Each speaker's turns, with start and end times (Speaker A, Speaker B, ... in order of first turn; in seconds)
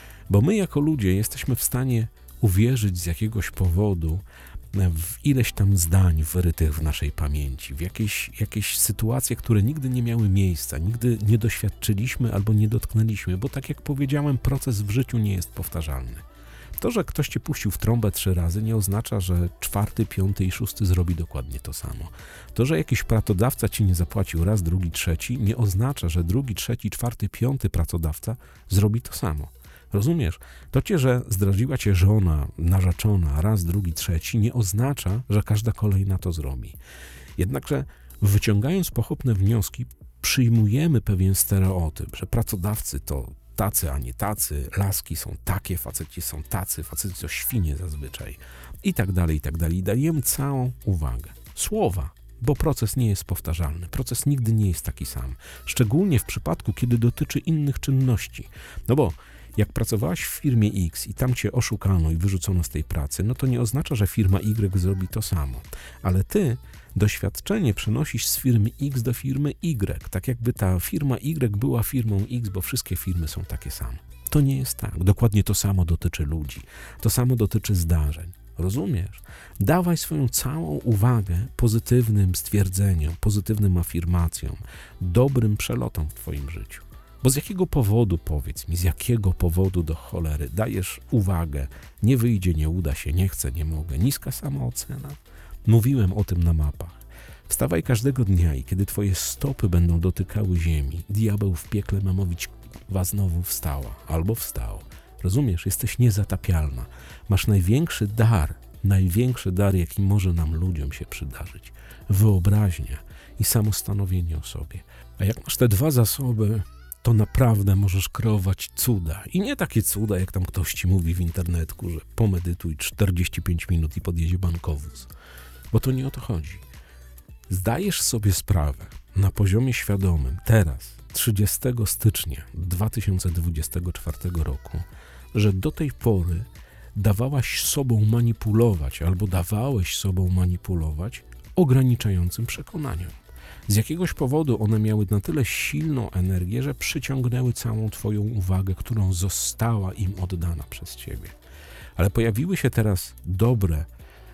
Speaker A: 0.3-16.2, 16.8-36.8, 37.4-125.1, 125.7-126.7, 127.5-143.2, 143.7-151.4, 152.0-153.9